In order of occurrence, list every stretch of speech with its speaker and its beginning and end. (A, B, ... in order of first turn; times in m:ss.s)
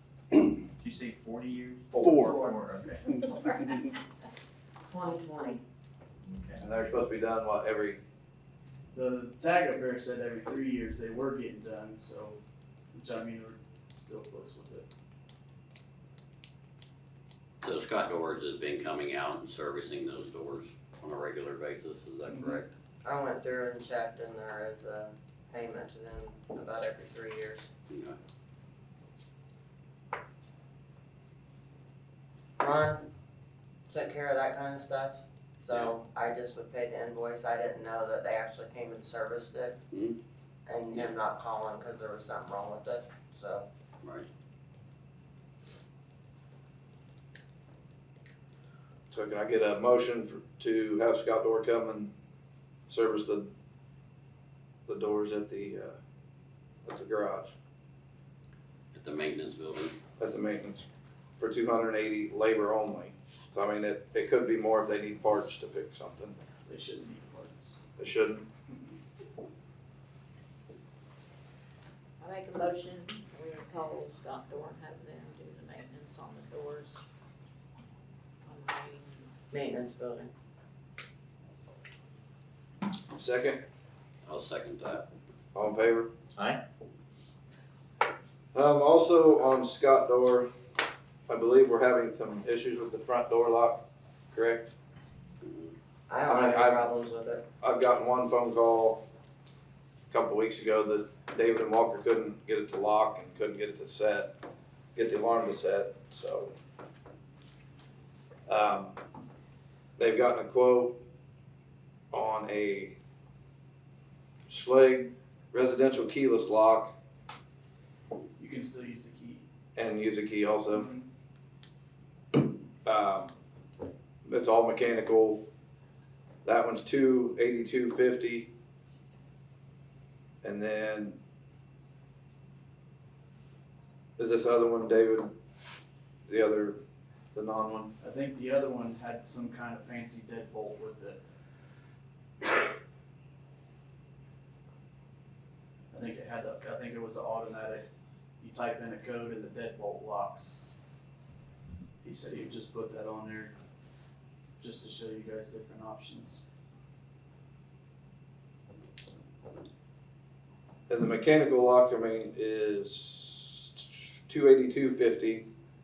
0:00.8-0:03.0 A
0:01.9-0:02.4 B
0:04.9-0:05.6 C
0:06.2-0:06.6 A
0:06.6-0:08.0 B
0:08.9-0:12.4 D
0:12.9-0:14.9 D
0:17.6-0:22.7 E
0:23.0-0:27.7 C
0:27.9-0:28.2 E
0:32.6-0:33.1 C
0:33.9-0:39.8 C
0:39.9-0:40.2 E
0:40.6-0:43.7 C
0:49.1-0:52.1 B
0:52.9-0:53.5 B
0:54.9-0:56.0 B
0:56.8-0:57.6 B
0:58.9-0:59.9 E
1:00.2-1:00.8 B
1:01.4-1:06.4 B
1:06.6-1:07.8 D
1:08.0-1:08.5 B
1:12.2-1:17.0 F
1:18.4-1:19.3 F
1:19.5-1:20.3 C
1:23.1-1:23.6 B
1:24.2-1:25.1 E
1:25.5-1:26.1 B
1:26.4-1:26.6 A
1:28.5-1:30.5 B
1:31.3-1:33.8 B
1:34.3-1:34.7 B
1:35.5-1:35.7 E
1:36.1-1:37.4 C
1:36.2-1:36.8 B
1:37.6-1:39.0 B
1:40.1-1:44.3 B
1:44.9-1:46.5 B
1:48.5-1:49.0 B
1:50.0-1:51.0 B
1:52.1-1:52.9 B
1:54.5-1:56.9 B
1:58.4-1:59.4 D
1:59.8-2:00.9 B
2:00.7-2:01.0 D
2:02.8-2:03.3 B
2:04.2-2:05.4 B
2:06.4-2:08.5 B
2:10.4-2:11.2 B
2:14.2-2:15.3 B
2:16.3-2:16.8 B
2:17.3-2:17.9 B
2:18.0-2:21.2 D
2:25.9-2:27.9 D
2:28.4-2:30.6 D
2:32.0-2:33.5 D
2:34.6-2:36.4 D
2:40.9-2:45.4 B